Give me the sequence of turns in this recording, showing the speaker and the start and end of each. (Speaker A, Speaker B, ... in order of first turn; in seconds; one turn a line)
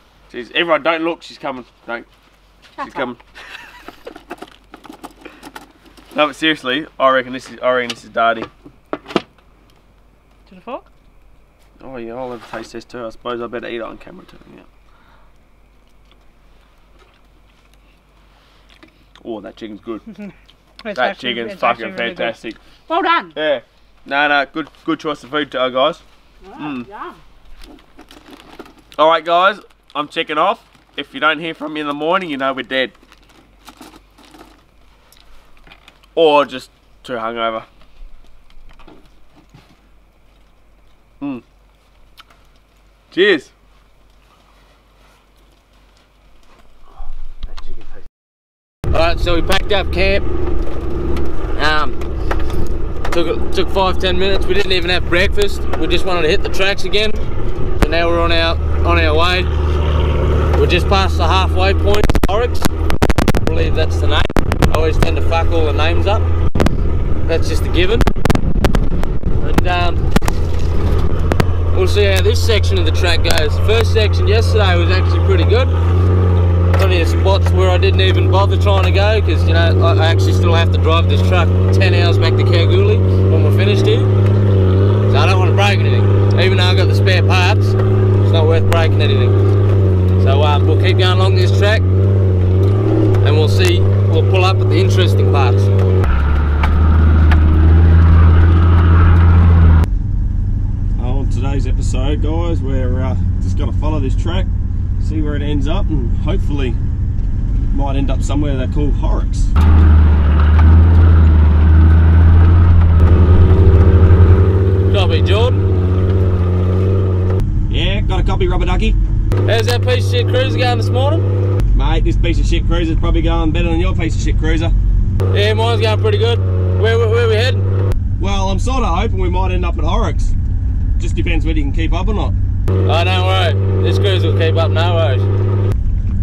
Speaker A: 0.3-2.1
Speaker A: 2.8-3.2
Speaker B: 2.8-3.0
Speaker A: 6.1-8.5
Speaker B: 10.5-10.9
Speaker A: 11.8-14.7
Speaker A: 19.2-20.0
Speaker B: 20.8-23.4
Speaker A: 20.9-22.6
Speaker A: 23.3-26.0
Speaker B: 26.4-27.2
Speaker A: 26.6-26.9
Speaker A: 29.0-32.9
Speaker A: 36.1-37.7
Speaker A: 43.1-43.5
Speaker C: 48.9-50.2
Speaker C: 51.5-52.0
Speaker C: 53.1-57.2
Speaker C: 57.8-59.5
Speaker C: 60.5-62.7
Speaker C: 63.4-66.2
Speaker C: 67.2-68.0
Speaker C: 69.4-70.0
Speaker C: 71.7-75.7
Speaker C: 76.7-84.1
Speaker C: 85.1-89.4
Speaker C: 90.2-91.8
Speaker C: 93.2-95.7
Speaker A: 101.0-106.8
Speaker A: 107.7-109.5
Speaker C: 114.9-115.7
Speaker A: 117.7-119.0
Speaker C: 119.5-121.2
Speaker A: 121.7-124.7
Speaker C: 125.3-127.7
Speaker A: 128.2-130.3
Speaker A: 131.0-132.3
Speaker C: 132.8-135.3